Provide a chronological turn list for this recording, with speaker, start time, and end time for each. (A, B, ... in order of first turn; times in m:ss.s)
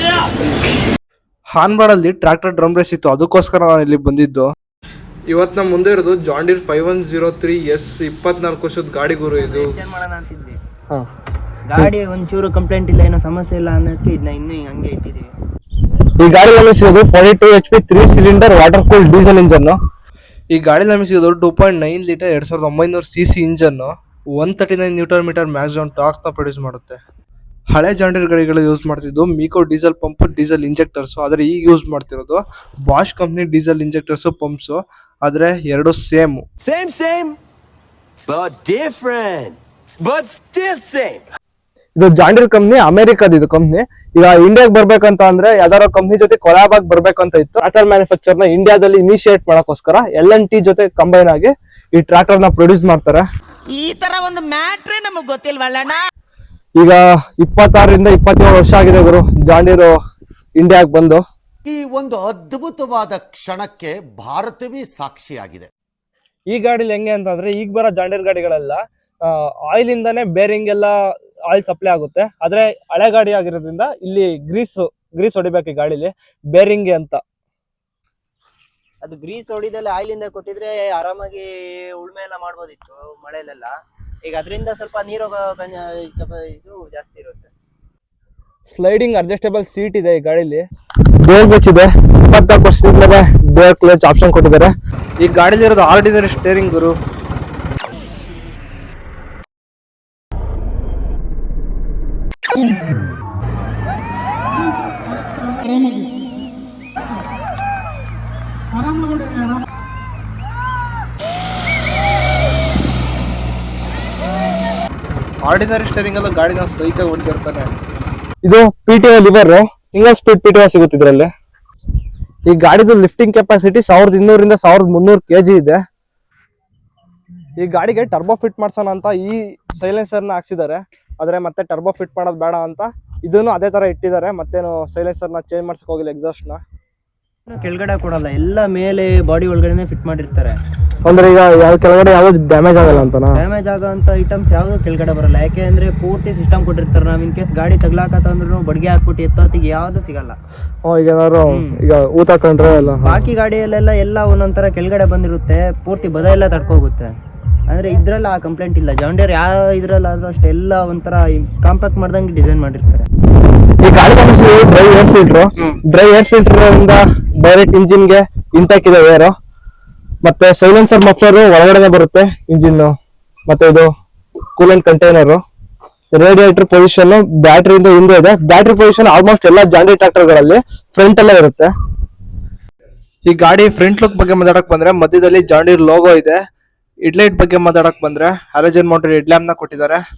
0:01.5-0:04.5 A
0:05.3-0:09.7 A
0:09.3-0:10.6 B
0:11.7-0:15.3 B
0:16.2-0:19.8 A
0:20.5-0:27.0 A
0:27.7-0:36.4 A
0:36.6-0:37.4 C
0:38.3-0:41.2 C
0:42.0-0:53.2 A
0:53.7-0:56.0 D
0:56.8-0:59.9 A
1:00.6-1:01.2 A
1:01.6-1:05.7 E
1:06.5-1:10.9 A
1:11.5-1:17.2 A
1:19.0-1:23.7 B
1:24.3-1:27.5 B
1:28.7-1:30.6 A
1:31.2-1:36.9 A
1:55.4-1:57.7 A
1:58.4-2:01.3 A
2:02.5-2:05.8 A
2:07.6-2:16.6 A
2:17.5-2:20.6 B
2:21.0-2:23.4 A
2:23.3-2:30.4 B
2:30.8-2:33.2 A
2:31.5-2:31.8 B
2:33.0-2:37.1 B
2:37.7-2:43.1 B
2:43.8-2:49.3 A
2:50.2-2:52.9 A
2:53.5-2:53.9 A
2:54.6-2:55.4 A
2:56.1-3:01.7 A
3:03.2-3:06.4 A
3:07.0-3:10.0 A